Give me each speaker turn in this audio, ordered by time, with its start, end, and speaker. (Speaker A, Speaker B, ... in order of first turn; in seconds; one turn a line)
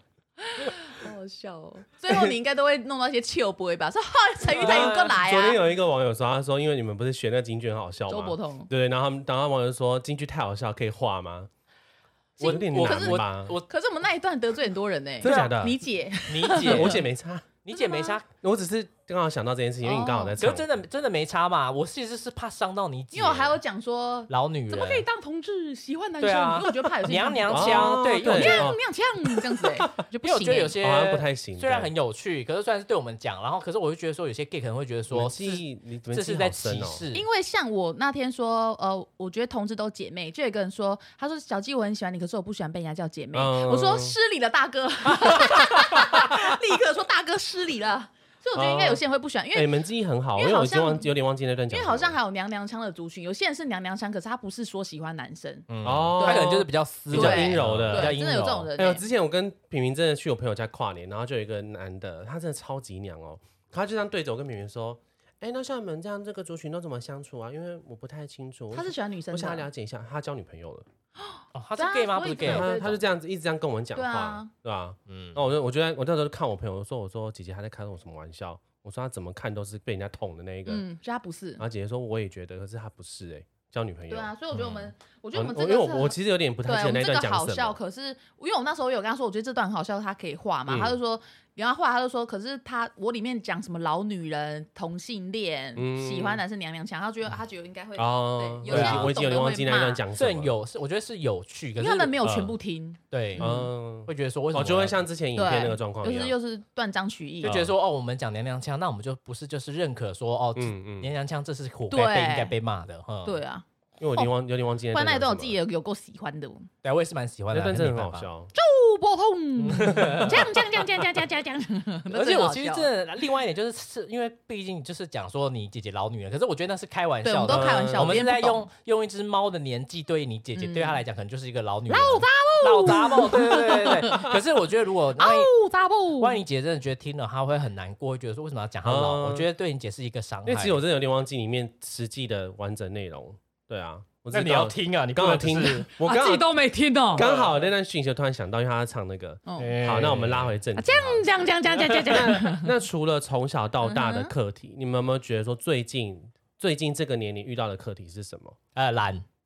Speaker A: 0.4-5.6
Speaker B: 4.5-11.5
Speaker C: 4.6-5.0
Speaker A: 8.1-8.7
Speaker B: 12.4-13.6
Speaker C: 12.4-13.7
Speaker A: 12.4-17.0
Speaker B: 15.2-15.8
Speaker C: 15.2-15.5
Speaker C: 16.3-17.1
Speaker B: 16.5-17.6
Speaker C: 17.6-18.3
Speaker A: 17.7-18.2
Speaker B: 18.4-20.7
Speaker A: 19.8-20.4
Speaker C: 20.4-23.6
Speaker A: 23.1-30.8
Speaker C: 24.3-25.1
Speaker C: 26.2-28.8
Speaker B: 27.5-28.8
Speaker C: 30.2-37.3
Speaker B: 30.8-31.9
Speaker B: 35.1-37.0
Speaker A: 37.1-49.7
Speaker B: 43.3-44.2
Speaker B: 48.5-49.0
Speaker B: 49.5-52.2
Speaker A: 50.4-51.1
Speaker A: 51.7-55.7
Speaker C: 55.7-58.7
Speaker B: 55.8-58.2
Speaker A: 56.2-59.0
Speaker B: 58.8-70.9
Speaker A: 68.7-69.7
Speaker A: 71.2-73.0
Speaker C: 71.5-73.0
Speaker B: 72.4-80.8
Speaker A: 74.0-74.5
Speaker C: 75.1-75.4
Speaker A: 80.7-81.6
Speaker B: 81.6-84.3
Speaker A: 84.1-100.0
Speaker C: 84.5-84.9
Speaker B: 85.3-87.8
Speaker B: 90.7-91.0
Speaker B: 95.8-96.4
Speaker B: 98.0-100.5
Speaker C: 98.7-99.1
Speaker C: 100.2-102.5
Speaker A: 101.8-103.7
Speaker C: 103.1-103.5
Speaker B: 103.4-106.3
Speaker C: 104.1-105.0
Speaker A: 105.4-107.5
Speaker B: 107.4-107.7
Speaker C: 107.4-113.4
Speaker B: 110.6-111.1
Speaker A: 111.9-112.5
Speaker A: 113.2-114.3
Speaker B: 114.0-115.6
Speaker A: 114.9-116.7
Speaker C: 116.8-118.3
Speaker B: 117.5-118.5
Speaker A: 118.5-122.9
Speaker C: 119.6-120.5
Speaker B: 119.9-120.4
Speaker C: 122.1-135.5
Speaker A: 127.2-128.7
Speaker B: 127.5-128.2
Speaker A: 130.6-131.0
Speaker A: 131.9-134.3
Speaker A: 135.2-136.4
Speaker C: 136.2-140.8
Speaker B: 138.8-139.5
Speaker B: 140.5-146.6
Speaker C: 144.3-145.9
Speaker A: 146.0-147.2
Speaker B: 147.1-158.6
Speaker C: 147.2-147.6
Speaker A: 149.5-149.8
Speaker C: 149.6-150.6
Speaker A: 150.8-152.7
Speaker C: 151.7-152.2
Speaker A: 153.8-154.3
Speaker C: 158.8-159.3